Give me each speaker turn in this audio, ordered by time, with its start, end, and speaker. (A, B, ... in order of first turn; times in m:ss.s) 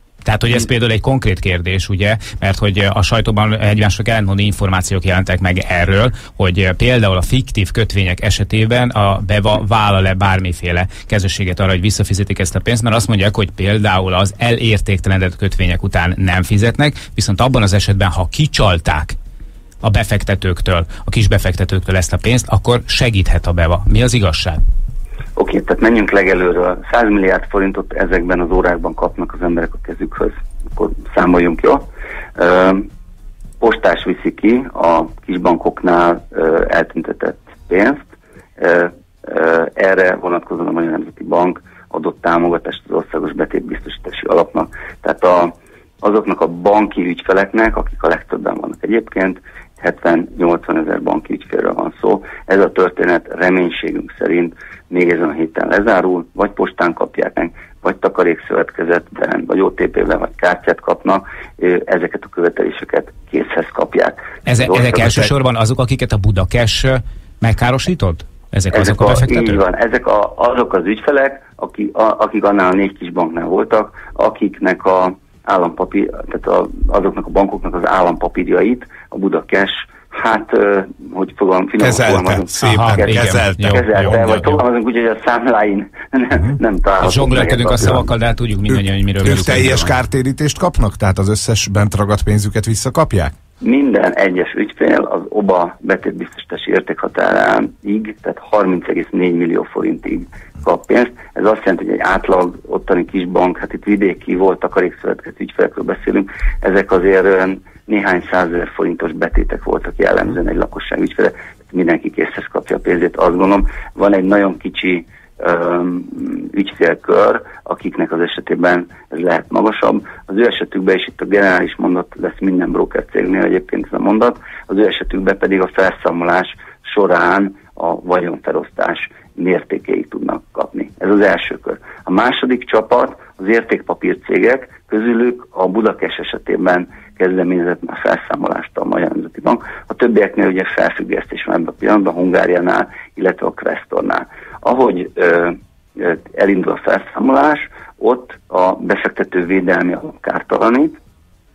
0:00.2-0:19.1 A
0:19.8-0:24.6 A
0:25.4-0:31.8 B
0:32.4-0:32.9 B
0:33.6-0:38.0 B
0:38.6-1:05.3 B
1:04.4-1:09.6 A
1:08.7-1:28.1 B
1:21.8-1:24.5 C
1:22.6-1:23.8 A
1:27.0-1:29.9 A
1:29.2-1:33.3 C
1:33.6-2:31.0 B